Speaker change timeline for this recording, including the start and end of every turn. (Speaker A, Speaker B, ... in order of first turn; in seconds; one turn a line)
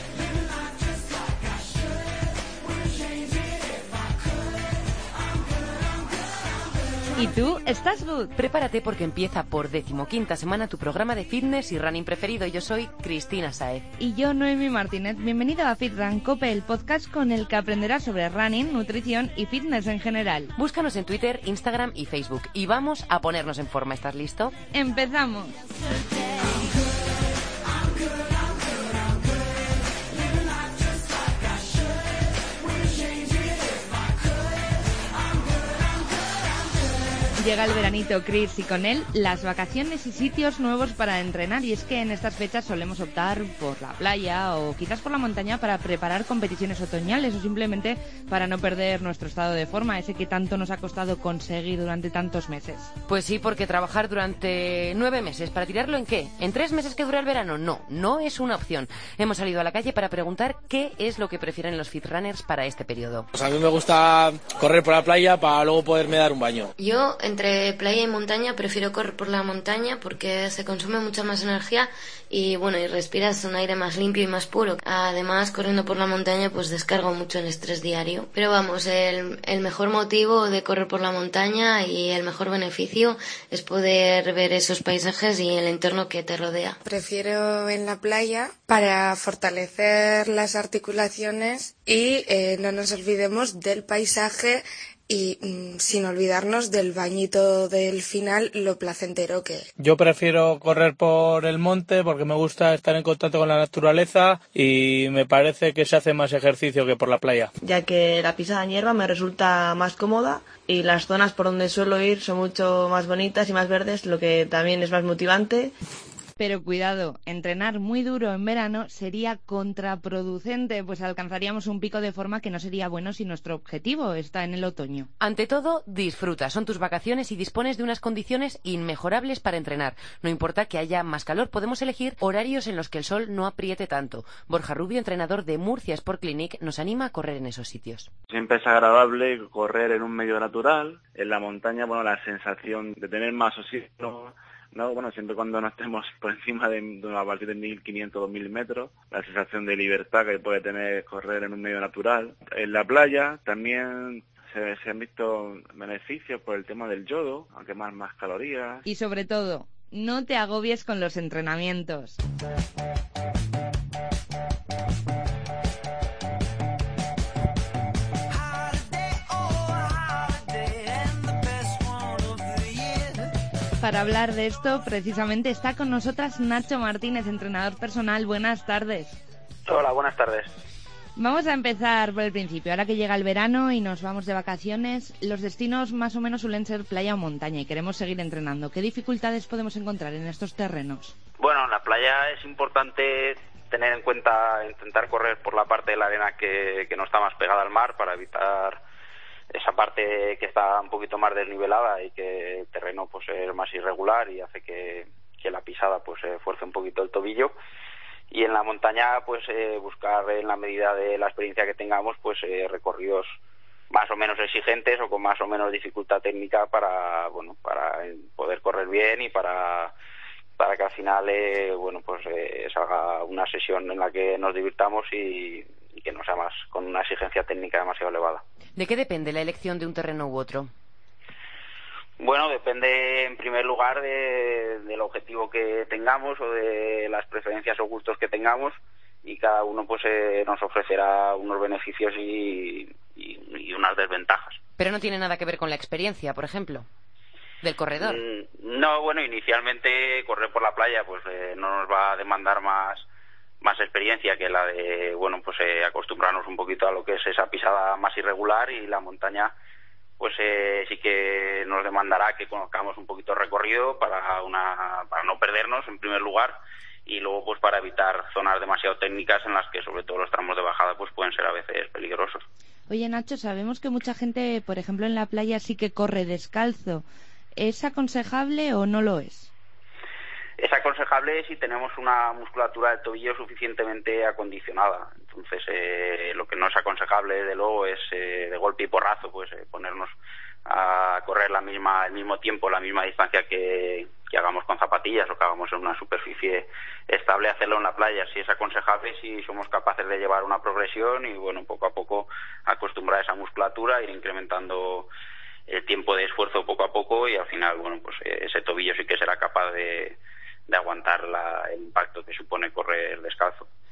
Speaker A: 7.2-8.3
Speaker B: 8.3-13.9
Speaker A: 14.0-20.5
Speaker B: 20.6-24.5
Speaker A: 24.7-25.6
Speaker A: 37.4-52.9
Speaker B: 53.1-63.3
Speaker C: 66.8-86.8
Speaker D: 86.8-99.7
Speaker E: 99.8-107.5
Speaker F: 107.6-115.7
Speaker A: 116.4-125.1
Speaker B: 125.2-138.1
Speaker G: 138.3-158.8
Speaker A: 158.9-162.2
Speaker A: 173.8-179.2
Speaker H: 179.7-180.5
Speaker A: 181.2-191.1
Speaker H: 191.4-198.8
Speaker H: 199.5-207.5
Speaker H: 208.3-213.3
Speaker H: 213.9-219.9
Speaker H: 220.6-228.4
Speaker B: 228.8-230.7
Speaker H: 232.2-244.6
Speaker B: 244.8-246.8
Speaker B: 247.6-248.2
Speaker H: 248.0-253.1
Speaker H: 253.6-259.5
Speaker H: 260.2-266.6
Speaker H: 267.1-272.4
Speaker A: 272.9-277.0
Speaker A: 277.6-279.5
Speaker H: 280.6-290.1
Speaker H: 290.7-305.1
Speaker H: 305.7-313.7